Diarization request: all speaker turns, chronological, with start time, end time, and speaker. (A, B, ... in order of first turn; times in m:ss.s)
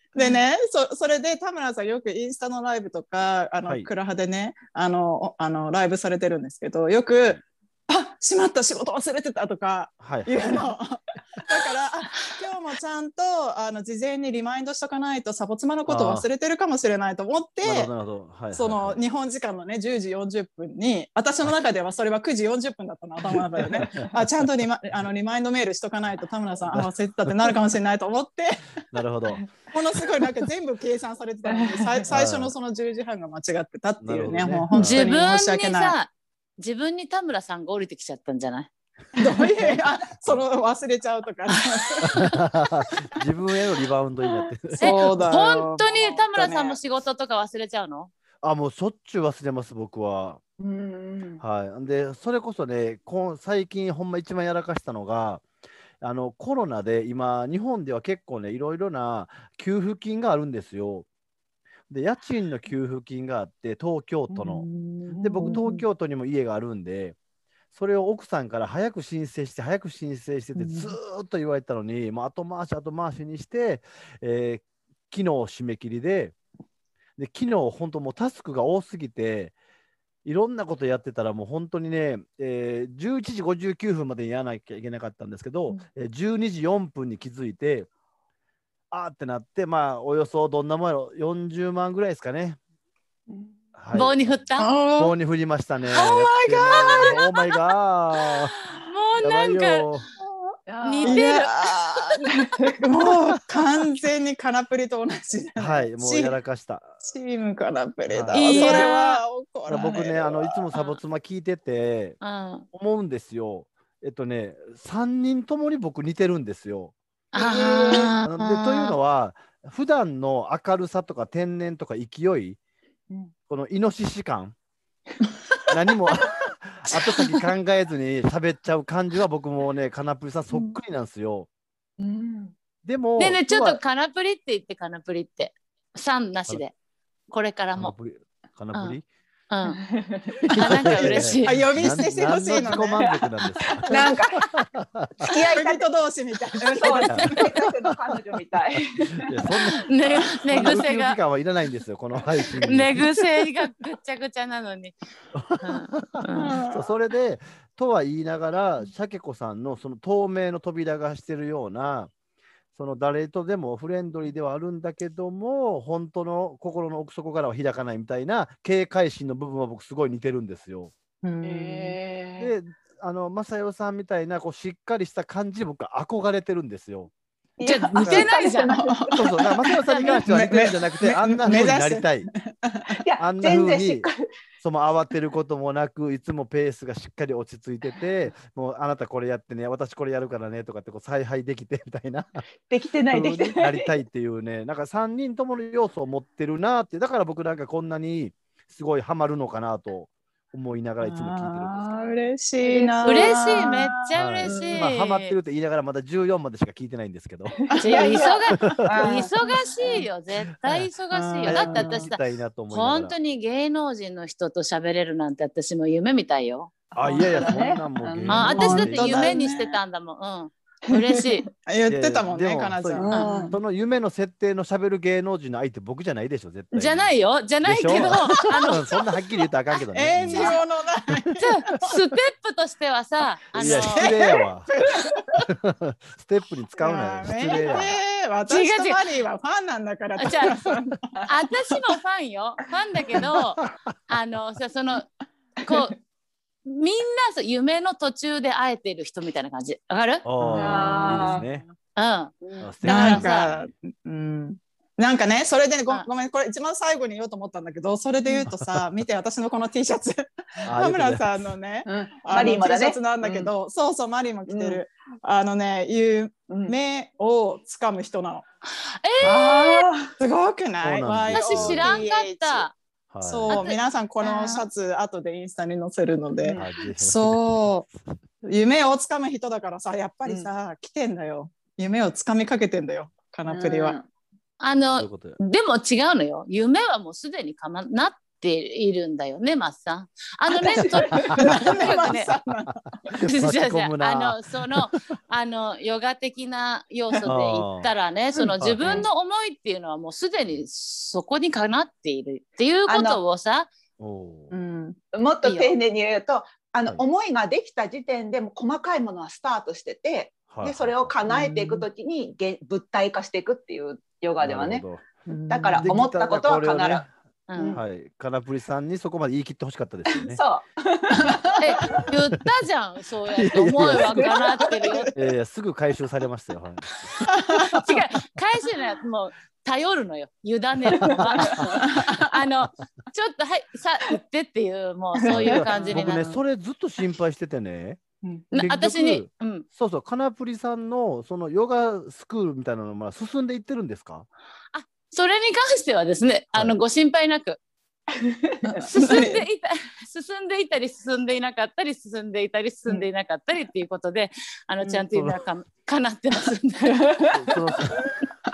0:00.1-0:17.9 A
0:10.0-0:10.7 B
0:15.9-0:16.3 B
0:17.6-0:19.0 B
0:18.5-0:28.7 A
0:23.6-0:24.1 B
0:23.8-0:24.1 C
0:26.7-0:27.5 B
0:28.9-0:29.5 B
0:29.7-0:36.0 A
0:31.5-0:32.1 C
0:32.1-0:32.5 B
0:34.0-0:35.2 B
0:34.8-0:38.7 D
0:39.2-0:42.2 A
0:39.6-0:40.4 B
0:42.0-0:45.2 B
0:44.2-0:44.5 C
0:44.8-0:46.8 A
0:44.8-0:48.1 D
0:45.8-0:46.2 C
0:48.4-0:50.4 B
0:50.6-0:51.4 C
0:51.4-0:55.4 B
0:56.0-1:01.1 B
1:01.9-1:04.6 B
1:04.4-1:05.8 C
1:05.2-1:07.2 B
1:05.4-1:05.7 A
1:07.7-1:16.4 B
1:10.6-1:10.9 C
1:17.2-1:19.5 B
1:20.2-1:27.9 B
1:28.9-1:32.6 B
1:33.3-1:33.6 C
1:33.8-1:34.4 B
1:33.9-1:34.7 D
1:34.6-1:35.2 A
1:35.0-1:38.6 B
1:35.9-1:37.2 A
1:37.0-1:37.6 D
1:38.7-1:39.9 D
1:39.2-1:40.1 B
1:40.7-1:41.3 C
1:40.8-1:42.0 D
1:41.0-1:46.4 A
1:42.3-1:42.8 C
1:45.6-1:46.9 B
1:47.0-1:50.6 A
1:48.1-1:48.8 B
1:48.3-1:49.2 D
1:49.7-1:52.2 B
1:52.2-1:52.7 D
1:52.7-1:56.9 B
1:57.3-1:59.0 D
1:57.4-1:58.1 C
1:57.5-2:02.6 B
2:03.5-2:04.5 B
2:05.7-2:11.5 B
2:12.0-2:12.6 C
2:12.8-2:13.8 B
2:13.2-2:16.7 D
2:17.3-2:17.9 D
2:17.8-2:19.0 B
2:18.7-2:19.0 D
2:19.5-2:19.8 D
2:19.8-2:20.5 C
2:20.4-2:25.3 B
2:20.5-2:21.5 D
2:21.0-2:23.1 A
2:23.0-2:24.6 C
2:25.2-2:25.8 C
2:25.2-2:27.6 A
2:26.6-2:29.3 C
2:27.1-2:27.9 B
2:28.8-2:33.2 B
2:29.9-2:31.2 D
2:32.6-2:35.0 D
2:35.3-2:42.1 B
2:35.6-2:36.5 D
2:36.4-2:36.9 A
2:42.8-2:50.9 B
2:51.2-2:52.0 A
2:51.4-2:52.5 C
2:52.4-2:57.1 B
2:57.6-2:59.3 C
2:57.6-2:58.7 D
2:58.0-2:58.3 B
2:58.6-3:03.0 A
2:59.1-3:02.3 B
2:59.9-3:00.2 D
3:03.0-3:04.2 C
3:03.2-3:04.1 B
3:04.6-3:12.4 B
3:12.7-3:13.9 C
3:13.1-3:21.8 B
3:21.0-3:24.0 A
3:21.7-3:23.8 C
3:23.0-3:25.4 D
3:24.1-3:27.6 B
3:27.5-3:30.0 C
3:27.7-3:28.2 A
3:27.8-3:32.2 D
3:31.1-3:32.1 A
3:31.5-3:33.2 B
3:32.7-3:36.7 D
3:36.9-3:39.4 B
3:37.0-3:38.8 C
3:38.3-3:41.5 D
3:38.5-3:39.8 A
3:40.9-3:41.2 C
3:41.7-3:43.6 A
3:41.9-3:47.1 B
3:42.9-3:43.6 C
3:43.1-3:43.4 D
3:46.7-3:48.9 D
3:47.6-3:50.6 B
3:49.9-3:52.0 A
3:50.3-3:50.6 D
3:51.4-3:54.2 D
3:53.5-3:54.7 B
3:53.6-3:55.3 A
3:55.5-3:58.0 B
3:56.8-4:01.1 A
3:58.5-3:59.0 D
4:00.2-4:00.6 D
4:01.3-4:05.1 D
4:05.6-4:06.0 D
4:06.7-4:10.2 D
4:10.2-4:11.6 B
4:10.4-4:11.5 A
4:10.5-4:11.5 C
4:12.0-4:13.5 D
4:12.4-4:12.7 C
4:12.6-4:13.7 B
4:12.8-4:28.4 A
4:18.5-4:18.8 B
4:20.7-4:21.5 B
4:21.8-4:23.5 C
4:24.5-4:24.8 C
4:26.5-4:26.8 C
4:28.7-4:29.9 D
4:29.2-4:30.1 C
4:30.2-4:32.7 A
4:30.8-4:31.9 B
4:31.3-4:32.8 D
4:33.1-4:33.5 B
4:33.2-4:37.8 A
4:33.5-4:34.7 D
4:36.4-4:36.7 C
4:36.6-4:38.1 B
4:38.4-4:44.0 A
4:43.5-4:44.1 C
4:44.6-4:52.3 D
4:44.9-4:45.4 B
4:50.6-4:51.3 C
4:51.3-4:53.0 A
4:51.5-4:54.8 B
4:53.2-5:03.7 D
4:57.2-4:57.9 B
4:58.6-4:59.1 B
5:02.9-5:03.2 C
5:04.0-5:04.5 B
5:04.8-5:14.8 C
5:05.4-5:05.8 D
5:10.5-5:11.2 B
5:11.3-5:11.9 A
5:14.4-5:15.1 B
5:15.3-5:15.9 A
5:15.5-5:17.0 C
5:15.8-5:17.1 B
5:17.5-5:17.8 D
5:17.6-5:17.8 C
5:17.7-5:20.4 B
5:20.1-5:22.0 C
5:21.2-5:21.4 B
5:21.6-5:25.1 D
5:23.3-5:24.3 B
5:24.1-5:24.9 C
5:25.1-5:27.1 B
5:27.5-5:36.3 D
5:31.0-5:31.8 C
5:31.1-5:31.7 B
5:31.9-5:32.2 A
5:35.2-5:38.0 B
5:35.3-5:35.6 C
5:38.5-5:39.7 D
5:38.5-5:44.3 B
5:44.7-5:47.6 D
5:48.2-5:48.9 C
5:48.6-5:49.4 A
5:48.9-5:57.1 D
5:55.1-5:55.4 B
5:57.0-5:57.5 C
5:57.3-5:58.1 B